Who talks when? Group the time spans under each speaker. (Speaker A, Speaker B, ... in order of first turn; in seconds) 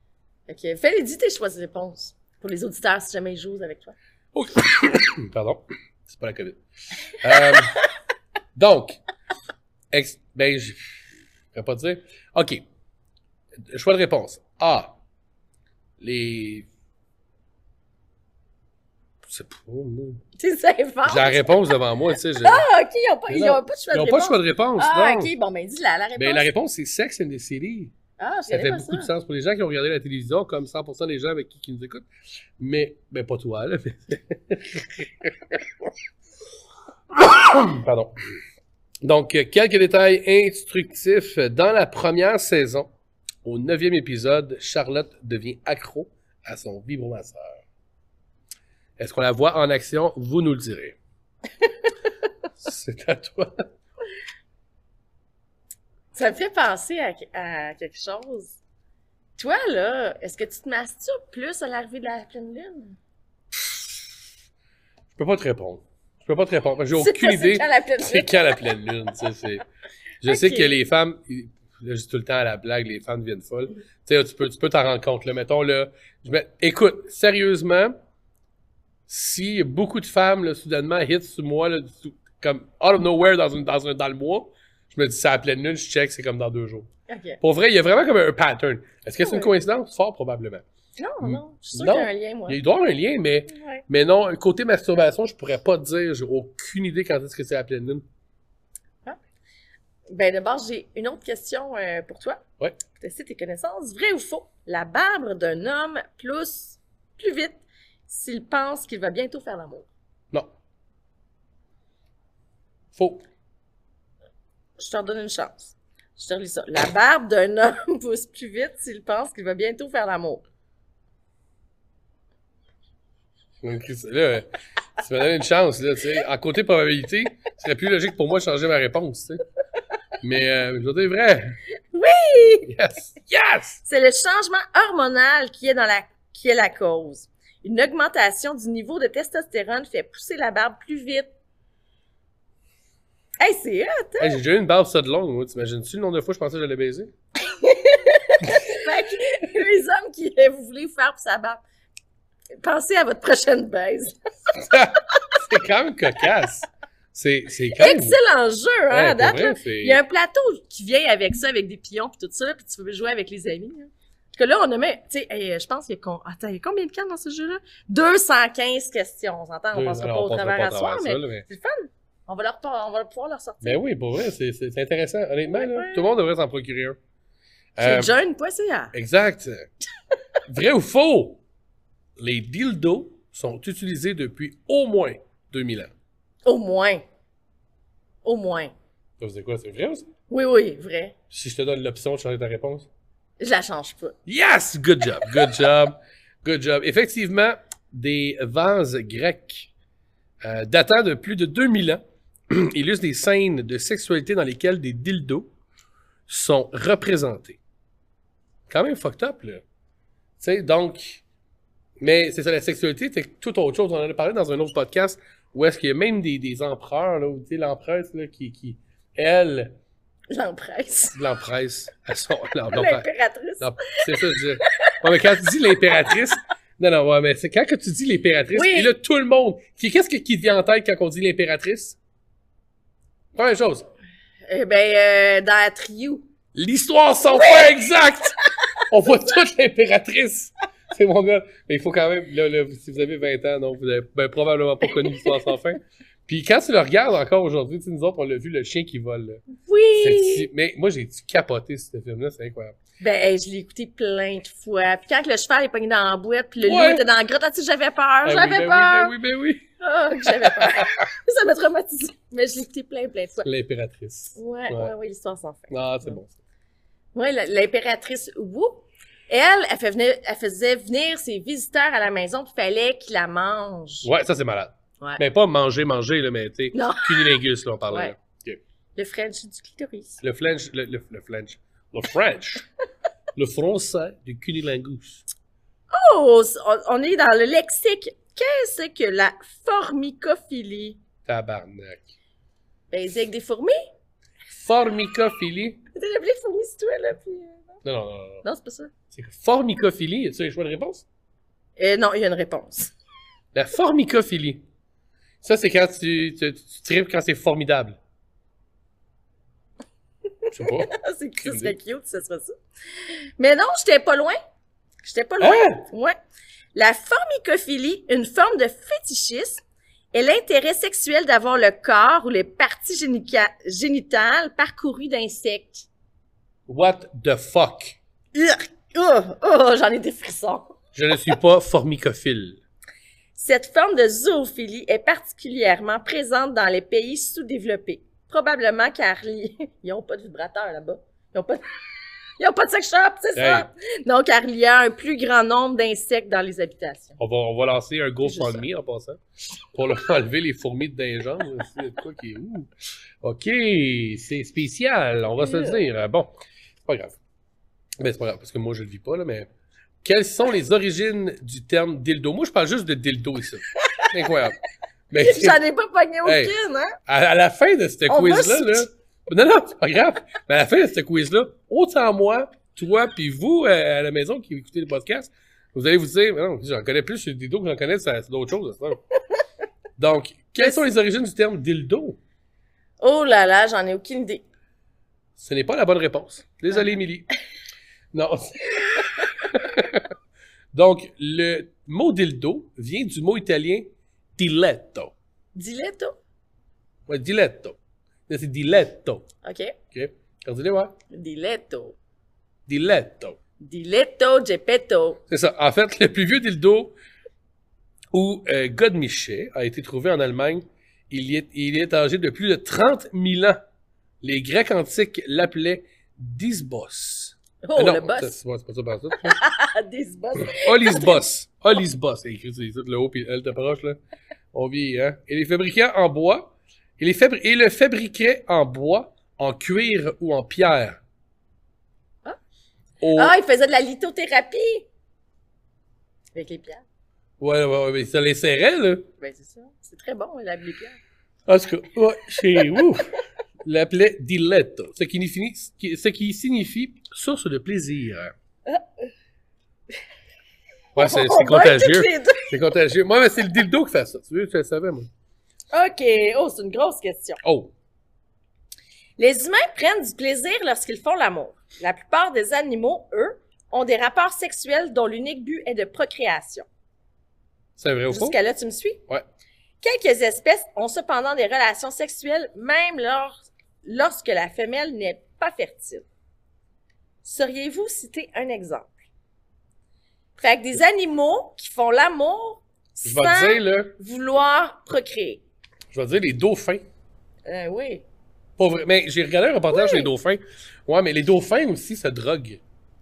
Speaker A: 0.5-4.0, 20.4-21.8, 22.4-26.5, 28.2-29.1, 56.1-58.6, 59.4-63.0, 67.0-68.6, 70.2-70.7, 87.1-87.4, 89.2-89.5, 91.0-92.6, 93.5-93.8, 100.1-109.9, 114.8-120.4, 131.9-132.7, 133.9-141.3, 143.4-144.4, 147.5-151.6, 152.6-154.2, 157.8-173.8, 175.5-176.1, 177.8-178.9, 186.4-187.1, 188.2-188.7, 190.3-191.2, 193.4-194.2, 220.3-221.2, 222.7-225.4, 228.5-228.9, 234.5-236.3, 237.3-237.8, 249.6-250.5, 253.0-259.1, 259.8-263.5, 264.4-266.2, 267.1-274.1, 276.7-278.1, 279.0-280.2, 285.9-291.0, 292.9-293.9, 295.9-297.6, 298.4-298.9, 301.8-302.9, 310.5-312.6, 313.1-314.4, 315.0-316.2, 316.8-319.6, 320.1-325.9, 328.3-330.8, 333.4-347.2, 348.2-348.7, 355.4-355.8, 365.2-367.0, 368.1-368.9, 383.0-384.4, 395.6-396.2, 399.4-399.8, 401.1-402.0, 403.6-405.2, 417.6-418.3, 419.2-421.2, 433.2-434.9, 436.3-436.8, 439.2-441.0, 451.0-452.6, 455.7-457.4, 459.2-466.7, 468.1-469.0, 469.8-476.1, 477.2-478.9, 480.4-485.4, 487.5-488.0, 489.7-490.1
Speaker B: 4.3-7.8, 8.6-9.0, 9.9-10.8, 11.5-12.7, 13.7-14.9, 16.0-16.7, 19.3-20.2, 21.1-22.6, 23.3-25.3, 26.2-27.9, 28.5-32.1, 32.6-35.6, 37.1-38.1, 39.0-42.9, 43.4-47.6, 49.0-51.0, 52.6-53.6, 63.6-63.9, 65.2-69.6, 70.2-78.0, 79.1-86.9, 87.4-90.6, 91.2-98.0, 113.0-113.2, 123.6-129.4, 130.2-131.6, 132.7-133.8, 144.2-147.1, 154.6-158.2, 158.9-160.0, 169.7-171.5, 173.6-177.0, 177.8-178.1, 178.9-179.7, 180.5-181.4, 182.2-185.9, 189.2-190.1, 191.3-192.9, 194.3-199.7, 200.4-205.5, 206.3-207.6, 208.7-209.6, 210.4-211.2, 212.0-219.7, 221.1-223.1, 223.6-232.0, 233.3-233.9, 236.6-249.4, 250.0-252.8, 256.6-257.0, 258.2-259.7, 260.2-260.9, 263.4-264.9, 265.7-266.3, 274.0-278.6, 280.2-282.7, 283.4-285.2, 291.3-292.1, 294.5-295.8, 297.8-298.4, 299.1-301.1, 303.6-304.6, 305.4-308.0, 310.5-311.8, 315.4-315.9, 326.7-328.0, 330.9-332.6, 343.4-343.7, 347.2-349.2, 349.7-352.7, 353.2-356.3, 356.9-357.2, 358.0-359.5, 360.0-364.6, 365.1-365.6, 366.2-366.5, 367.1-379.0, 380.0-382.2, 385.4-387.3, 388.1-390.1, 390.7-395.1, 397.1-397.8, 398.3-399.3, 399.9-400.9, 402.7-403.4, 405.3-406.9, 408.1-413.6, 414.2-419.4, 420.4-424.0, 424.5-431.0, 433.0-433.3, 437.4-439.1, 441.5-448.3, 451.0-455.1, 457.4-457.7, 467.8-468.4, 483.0-483.9, 485.9-486.9, 488.6-492.6